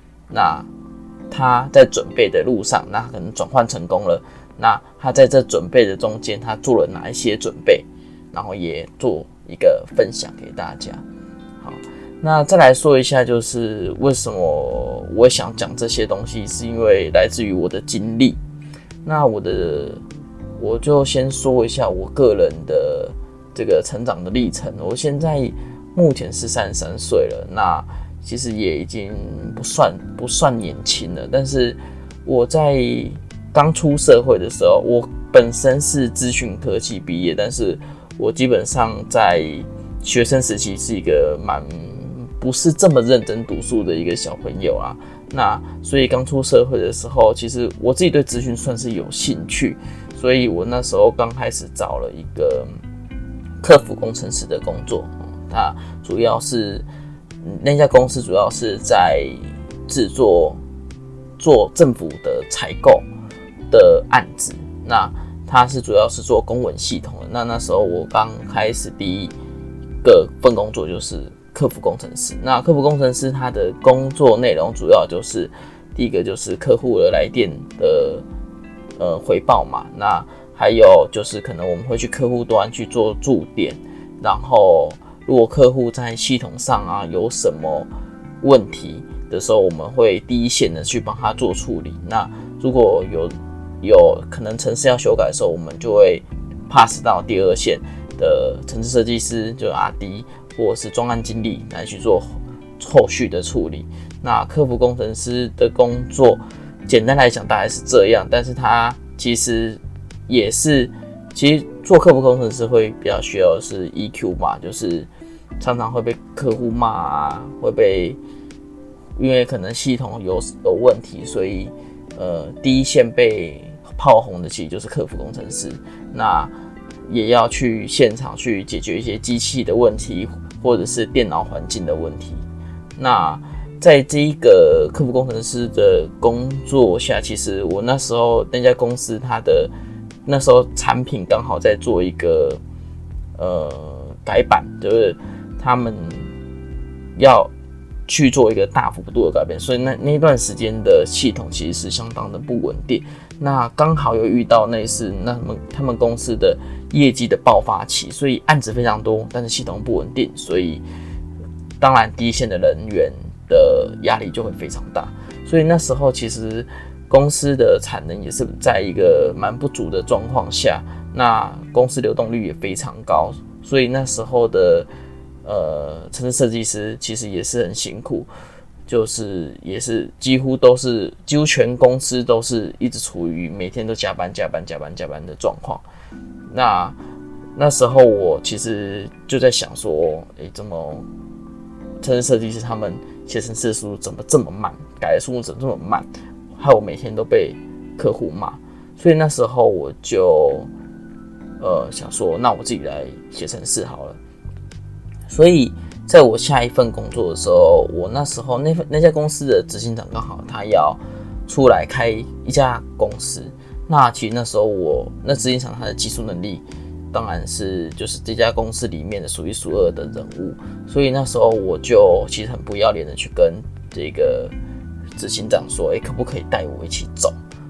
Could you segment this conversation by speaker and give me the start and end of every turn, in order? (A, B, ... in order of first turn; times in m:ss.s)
0:00.3-0:00.7 A
0:01.3-0:11.0 A
0:11.6-0:18.4 A
0:19.0-0:20.0 A
0:20.6-0:52.7 A
0:53.6-0:56.8 A
0:57.4-1:00.6 A
1:01.4-1:03.0 A
1:03.7-1:09.3 A
1:10.0-1:18.2 A
1:19.0-1:27.9 A
1:28.4-1:55.1 A
1:55.6-1:58.2 A
1:59.2-2:06.5 A
2:07.1-2:12.4 A
2:13.0-2:19.7 A
2:20.2-2:22.6 A
2:23.4-2:26.3 A
2:27.2-2:27.5 A
2:28.1-2:40.8 A
2:41.8-2:54.9 A
2:55.4-2:58.3 A
2:58.9-3:05.8 A
3:06.5-3:07.0 A
3:07.5-3:11.0 A
3:12.0-3:20.7 A
3:21.6-3:24.2 A
3:25.3-3:44.5 A
3:45.2-3:47.4 A